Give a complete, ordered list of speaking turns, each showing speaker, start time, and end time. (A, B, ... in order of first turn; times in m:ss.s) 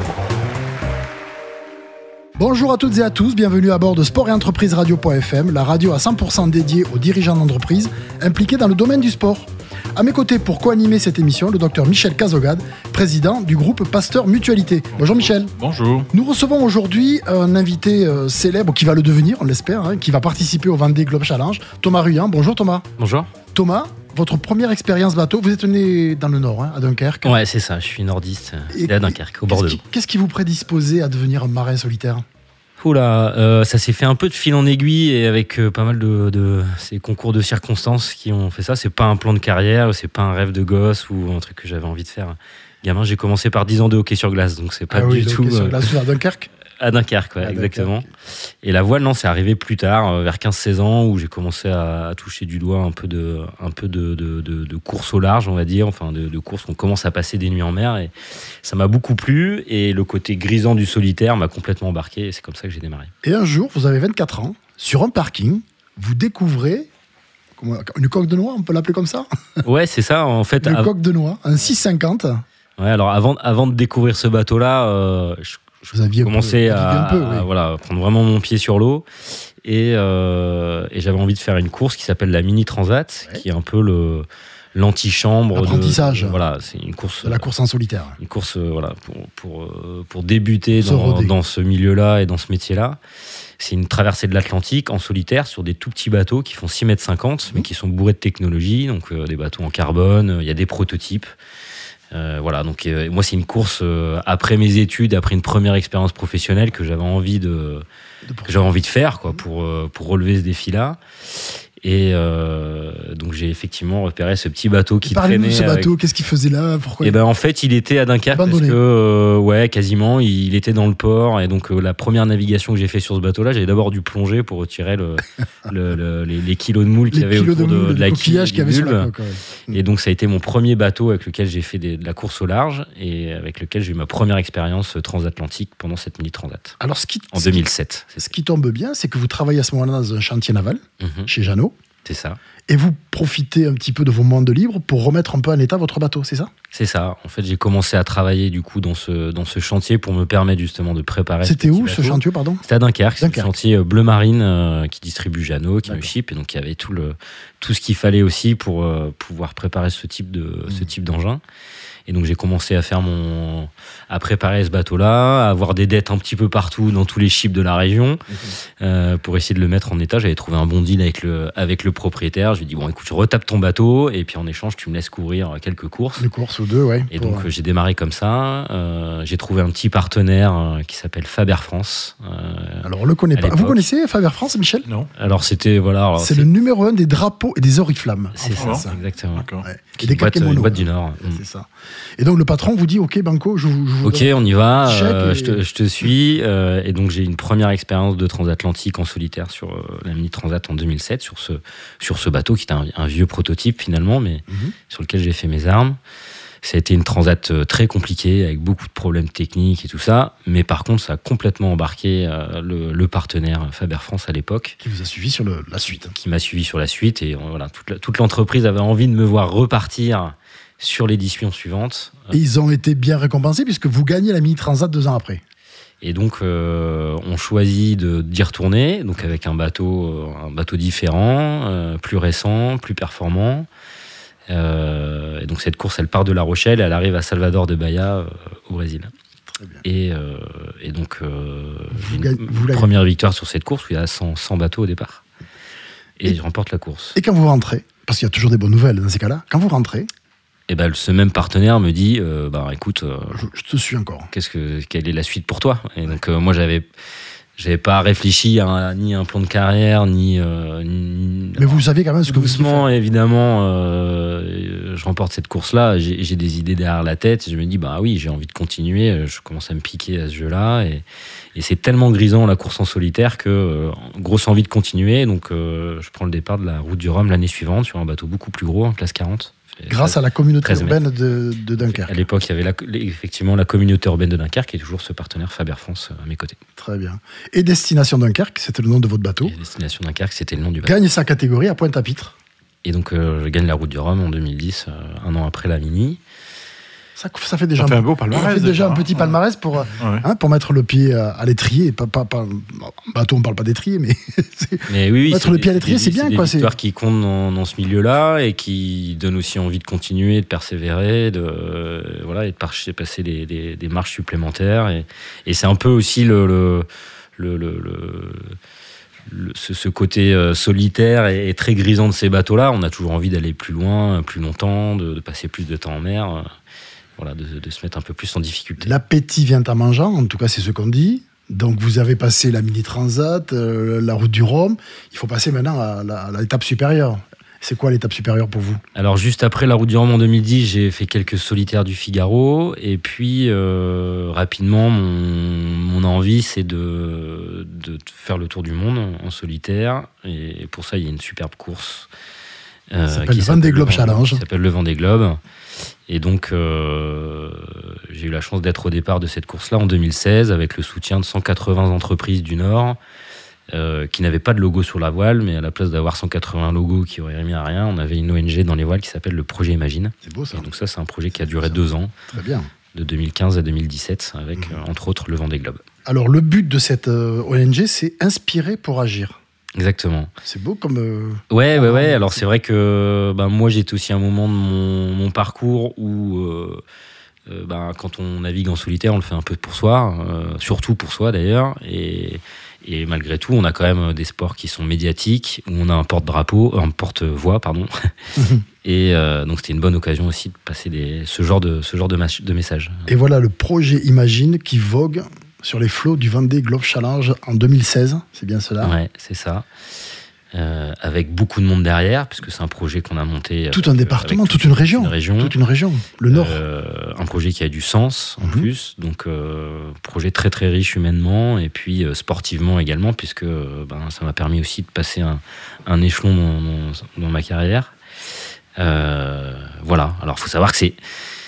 0:02.4-0:15.5 A
0:15.0-0:16.1 B
0:16.1-0:22.9 A
0:23.0-0:23.3 C
0:23.5-0:27.4 A
0:27.2-0:29.8 C
0:28.7-0:32.2 A
0:32.8-0:46.0 C
0:44.9-0:46.5 A
0:46.8-0:48.1 C
0:47.4-0:48.1 A
0:48.6-1:03.1 C
1:03.2-1:06.9 A
1:07.6-1:09.3 A
1:09.6-1:10.9 C
1:10.6-1:12.4 A
1:12.8-1:19.1 C
1:15.9-1:17.5 A
1:19.6-1:27.5 C
1:25.5-1:26.4 A
1:27.2-1:28.2 A
1:28.2-1:33.0 C
1:30.8-1:31.4 A
1:33.6-1:41.3 C
1:42.1-1:47.8 C
1:48.2-1:48.7 A
1:48.4-1:51.0 C
1:51.8-1:56.0 C
1:55.0-1:57.2 A
1:57.0-2:09.1 C
1:58.3-1:58.8 A
2:07.1-2:09.8 A
2:09.7-2:16.8 C
2:16.8-2:21.8 A
2:17.3-2:18.3 C
2:21.0-2:21.3 C
2:22.0-2:22.4 C
2:22.7-2:26.5 A
2:26.7-2:41.4 C
2:31.4-2:32.6 A
2:33.2-2:33.5 A
2:35.8-2:36.1 A
2:42.1-2:48.2 C
2:48.8-2:56.3 C
2:56.2-2:57.5 A
2:57.1-3:03.9 C
3:02.8-3:04.9 A
3:05.2-3:06.5 C
3:06.2-3:09.0 A
3:08.4-3:09.5 C
3:08.6-3:09.7 B
3:09.6-3:11.7 A
3:10.0-3:11.4 C
3:12.2-3:15.6 A
3:14.0-3:26.0 C
3:24.5-3:24.8 A
3:26.6-3:34.8 C
3:34.8-3:36.2 A
3:36.1-3:42.4 C
3:42.3-3:45.4 A
3:46.0-3:53.7 C
3:54.5-3:59.1 C
3:59.8-4:05.2 C
4:01.9-4:02.9 A
4:06.2-4:07.2 C
4:07.2-4:10.1 A
4:10.7-4:13.4 C
4:13.3-4:14.3 A
4:14.3-4:16.9 C
4:17.6-4:41.0 C
4:21.6-4:22.9 A
4:39.9-4:42.1 A
4:41.9-4:46.6 C
4:46.8-4:49.5 A
4:49.4-4:51.0 C
4:50.8-4:52.4 A
4:52.8-4:56.2 C
4:57.2-5:06.7 A
4:57.8-4:59.3 B
5:00.0-5:00.3 B
5:04.9-5:18.6 C
5:19.3-5:26.5 C
5:27.2-5:29.0 C
5:28.8-5:38.8 A
5:39.0-5:52.1 C
5:52.9-5:55.4 C
5:53.1-5:54.4 A
5:56.1-6:03.0 C
6:03.7-6:12.3 C
6:10.2-6:10.7 A
6:12.3-6:12.7 A
6:12.9-6:15.8 C
6:16.1-6:19.4 A
6:19.8-6:20.3 C
6:20.4-6:22.4 A
6:21.5-6:26.8 C
6:27.5-6:37.9 C
6:38.4-6:38.6 A
6:38.8-6:43.1 C
6:43.1-6:49.0 A
6:48.8-6:49.7 C
6:50.5-6:55.6 C
6:53.7-6:56.6 A
6:56.3-7:08.0 C
6:58.4-6:58.7 A
7:08.8-7:11.0 C